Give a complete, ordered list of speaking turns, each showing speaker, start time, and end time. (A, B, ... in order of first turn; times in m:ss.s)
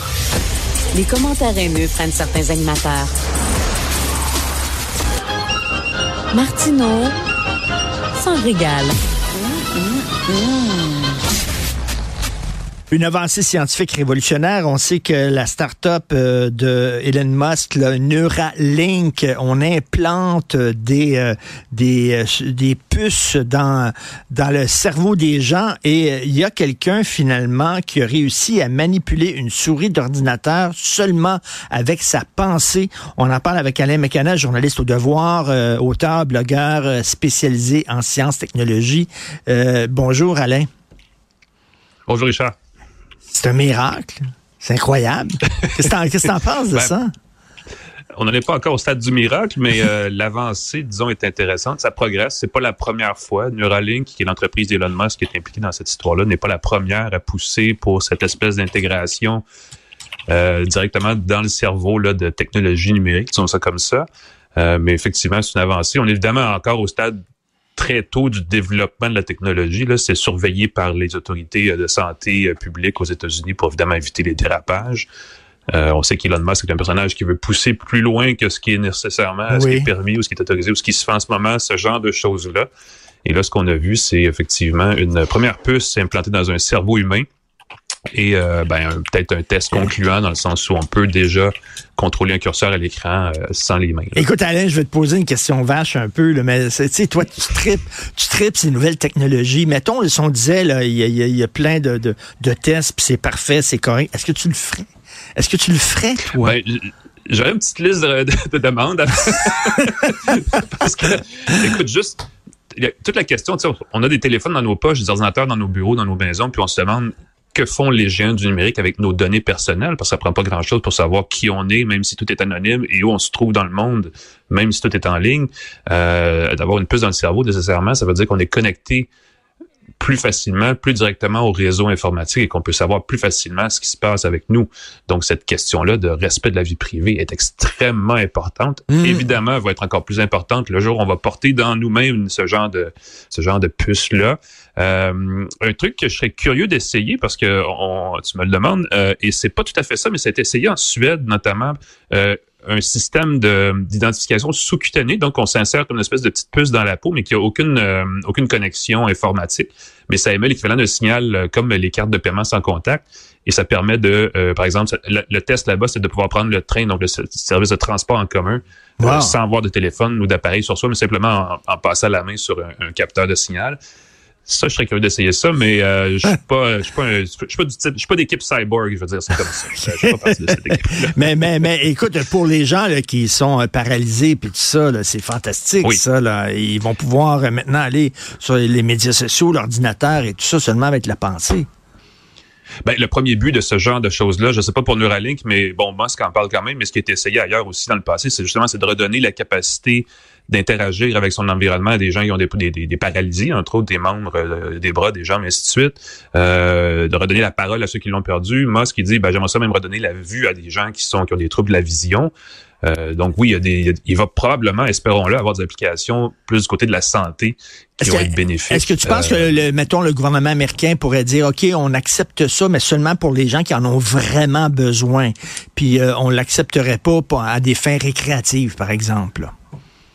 0:00.9-0:03.2 A
0:06.3-0:07.2 A
0:08.2-0:09.0 A
0:09.7-0:11.0 A
0:12.9-0:40.7 B
0:42.1-0:42.6 C
0:43.3-0:47.1 B
0:45.6-0:47.0 C
0:48.2-0:59.4 C
1:00.3-1:04.0 C
1:04.6-1:07.2 C
1:07.8-1:15.1 C
1:15.7-1:22.7 C
1:19.5-1:19.9 B
1:23.2-1:27.2 C
1:28.1-1:34.3 C
1:34.2-1:46.6 B
1:46.2-2:09.1 C
2:10.0-2:53.8 C
2:19.0-2:19.3 B
2:49.0-2:49.4 B
2:54.5-3:01.6 C
3:01.0-3:11.7 B
3:12.8-3:32.3 C
3:32.8-3:39.6 C
3:38.0-3:49.5 B